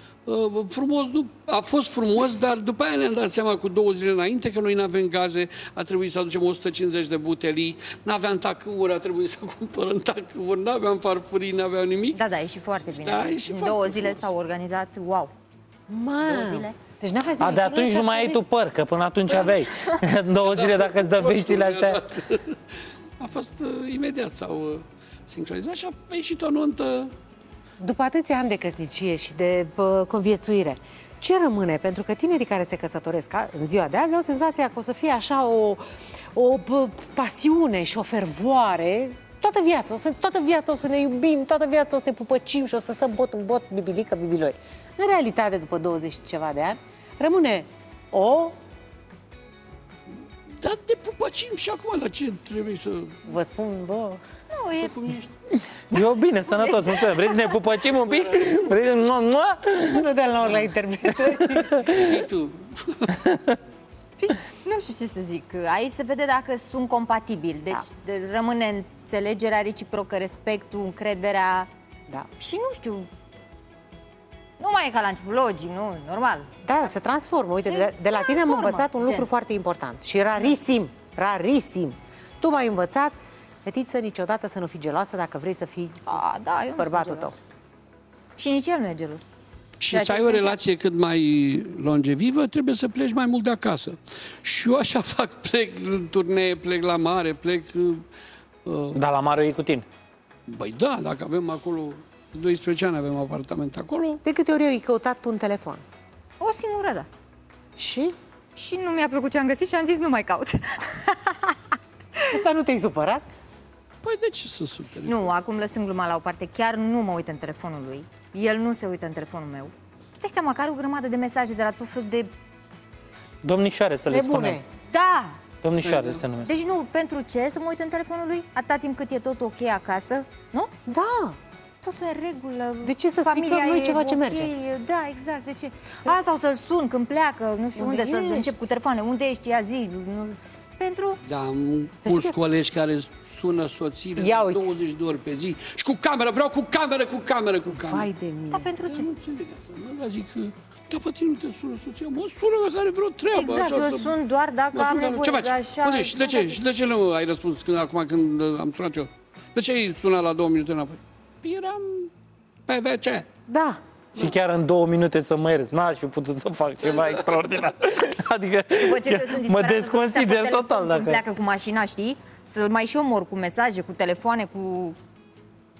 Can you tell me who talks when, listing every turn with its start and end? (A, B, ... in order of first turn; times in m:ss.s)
0:00.2-0:12.2 A
0:12.1-0:15.3 B
0:12.8-0:14.3 A
0:15.9-0:18.4 C
0:16.2-0:16.8 B
0:17.4-0:22.0 D
0:19.3-0:19.6 A
0:20.4-0:27.1 A
0:27.8-0:35.8 C
0:36.3-0:48.5 C
0:50.6-0:53.3 A
0:53.3-0:54.2 C
0:54.5-0:54.9 B
0:54.8-0:55.3 A
0:55.9-1:00.0 D
0:56.4-0:57.6 B
0:58.1-0:58.8 A
0:59.8-1:01.9 C
1:01.2-1:02.1 D
1:01.9-1:03.2 A
1:03.2-1:03.6 D
1:04.2-1:11.7 B
1:12.4-1:13.1 B
1:14.6-1:16.5 B
1:16.6-1:26.2 C
1:17.6-1:19.3 B
1:26.0-1:27.3 B
1:26.8-1:27.4 C
1:28.4-1:29.3 B
1:29.8-1:38.0 A
1:29.9-1:30.5 B
1:38.6-1:39.0 A
1:38.9-1:39.8 D
1:40.5-1:44.2 A
1:44.2-1:45.8 C
1:46.4-1:47.1 B
1:47.8-1:48.1 C
1:48.5-1:51.7 B
1:52.3-1:53.2 C
1:54.0-1:55.3 A
1:55.0-2:02.3 B
2:03.4-2:04.6 D
2:04.1-2:04.6 C
2:04.9-2:05.4 B
2:05.6-2:06.5 D
2:05.8-2:06.2 A
2:06.4-2:10.7 B
2:10.9-2:11.4 C
2:11.8-2:21.2 B
2:12.8-2:14.5 C
2:17.8-2:18.5 C
2:21.2-2:28.1 A
2:22.0-2:22.4 C
2:24.2-2:24.7 C
2:27.7-2:28.7 C
2:28.5-2:29.1 B
2:28.8-2:34.1 A
2:33.3-2:36.6 B
2:34.7-2:42.1 A
2:42.7-2:43.3 A
2:43.5-2:43.8 C
2:44.1-2:51.2 D
2:46.8-2:47.4 A
2:48.8-2:55.0 B